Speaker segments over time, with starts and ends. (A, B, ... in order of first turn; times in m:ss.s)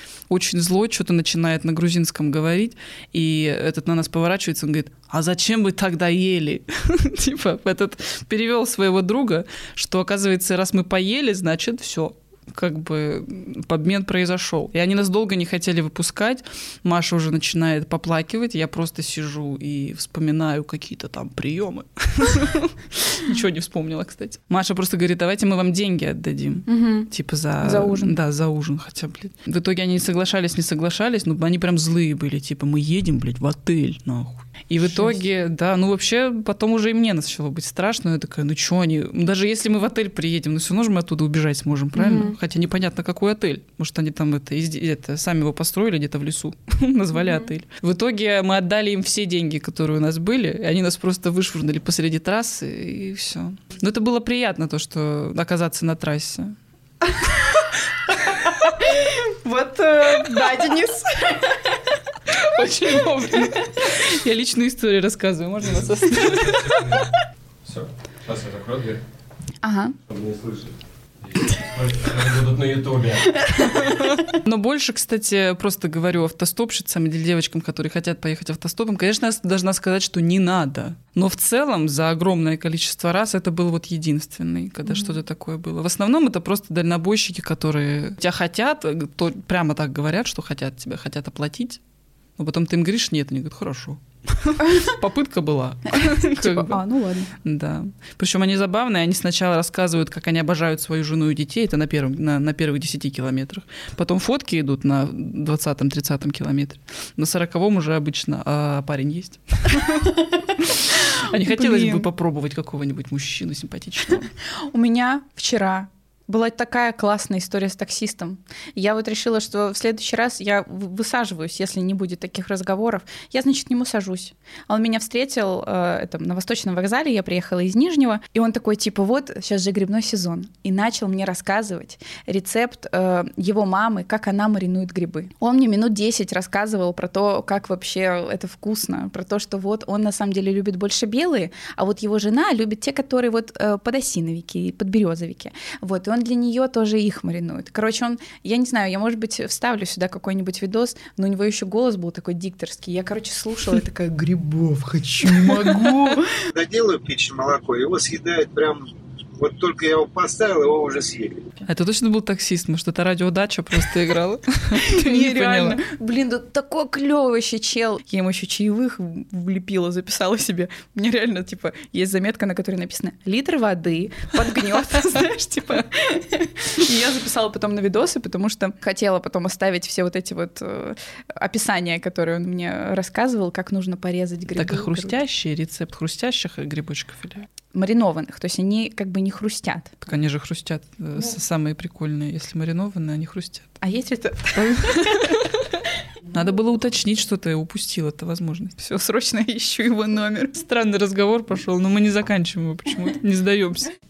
0:00.3-0:56.6 A
0:26.7-0:28.2 B
0:42.0-0:42.4 B
0:58.4-1:01.7 B
1:00.2-1:00.6 A
1:02.3-1:06.9 A
1:06.6-1:07.0 C
1:07.6-1:09.0 C
1:09.6-1:10.0 B
1:10.1-1:10.7 C
1:11.3-1:13.5 C
1:13.4-1:14.0 B
1:13.7-1:31.8 A
1:32.4-1:36.8 A
1:35.9-1:37.3 B
1:37.4-1:54.3 A
1:51.1-1:52.1 B
1:54.5-2:36.4 B
2:35.4-2:36.0 A
2:36.5-2:41.4 D
2:41.6-2:45.8 A
2:44.8-3:05.2 B
3:04.6-3:07.5 A
3:07.7-3:09.9 B
3:10.0-3:13.7 A
3:13.8-3:15.4 B
3:14.5-3:18.8 A
3:18.8-3:20.6 B
3:20.6-3:23.9 A